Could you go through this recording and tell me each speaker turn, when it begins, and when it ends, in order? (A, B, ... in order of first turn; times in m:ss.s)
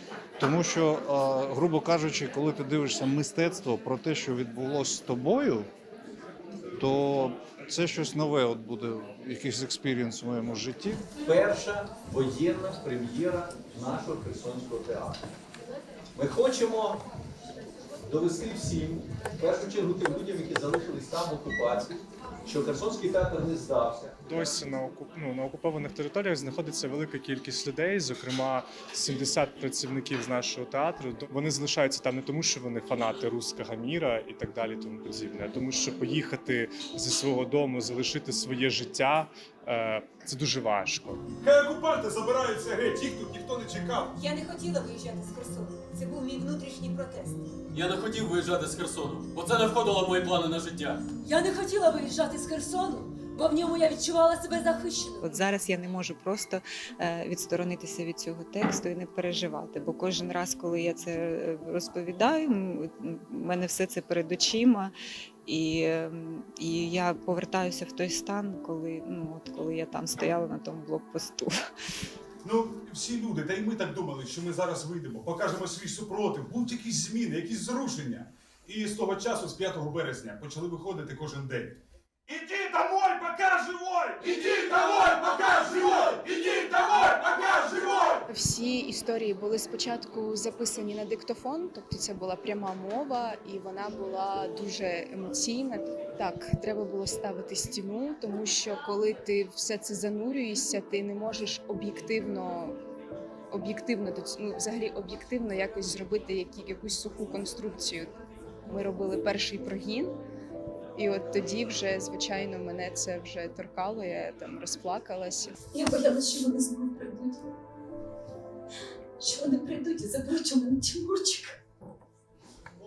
0:00.4-0:05.7 A
0:06.8-0:11.1 A
0:11.2-0:15.2 B
0:16.2-0:17.0 B
0:18.0-0:24.1 B
0:24.2-0:41.2 C
0:41.4-0:44.1 D
0:44.2-0:47.4 E
0:47.7-0:51.1 F
0:51.2-0:55.2 E
0:55.2-1:04.9 G
1:05.5-1:11.5 G
1:12.5-1:21.7 D
1:22.3-1:28.1 D
1:28.3-1:42.8 H
1:43.5-1:48.2 H
1:48.7-1:50.2 H
1:51.0-1:55.6 H
1:55.7-1:57.4 E
1:59.2-2:01.6 E